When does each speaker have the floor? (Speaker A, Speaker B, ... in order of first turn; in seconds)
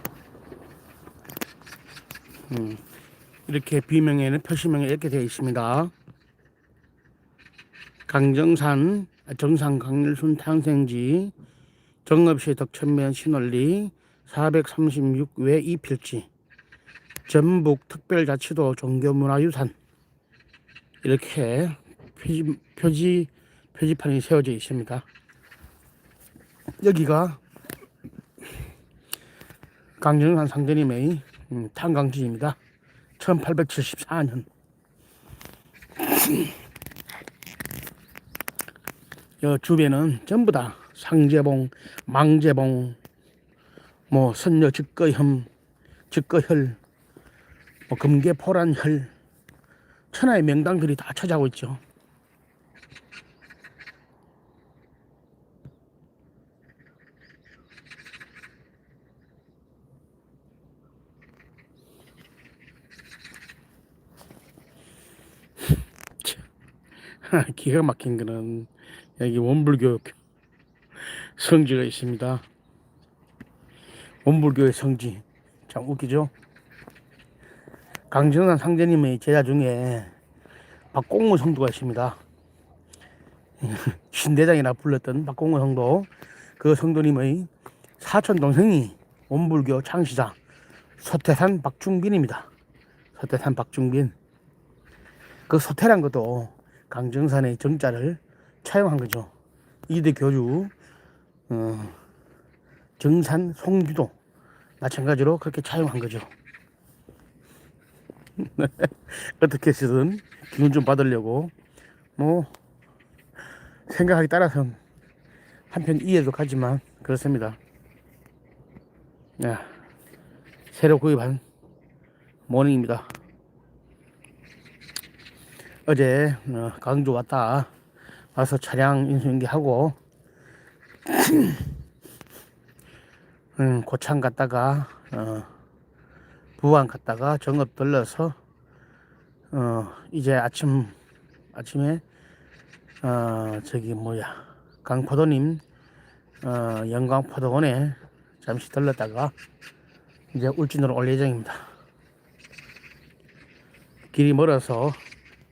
Speaker A: 2.5-2.8, 3.5-5.9, 8.1-11.3, 12.1-16.3, 17.3-19.7, 21.0-25.1, 26.8-27.4, 30.0-32.6, 33.2-34.5, 36.0-36.5, 39.4-43.0, 44.1-45.5, 46.1-46.8, 47.9-49.1, 50.1-51.8, 67.2-70.2, 71.1-72.4, 74.2-76.3, 78.1-80.1, 80.9-82.2, 83.6-90.4, 91.0-92.5, 93.2-94.1, 95.5-99.3, 99.9-100.7, 101.5-102.0, 103.0-104.1, 104.8-106.3, 108.4-111.5, 112.2-112.5, 113.9-114.8, 115.7-117.6, 119.4-119.7, 120.7-121.4, 122.5-123.1, 125.9-127.7, 128.3-130.0, 131.1-131.7, 133.6-135.5, 136.6-138.3, 139.5-140.9, 141.5-142.0, 143.0-145.6, 146.4-149.3, 150.3-151.6, 154.1-155.0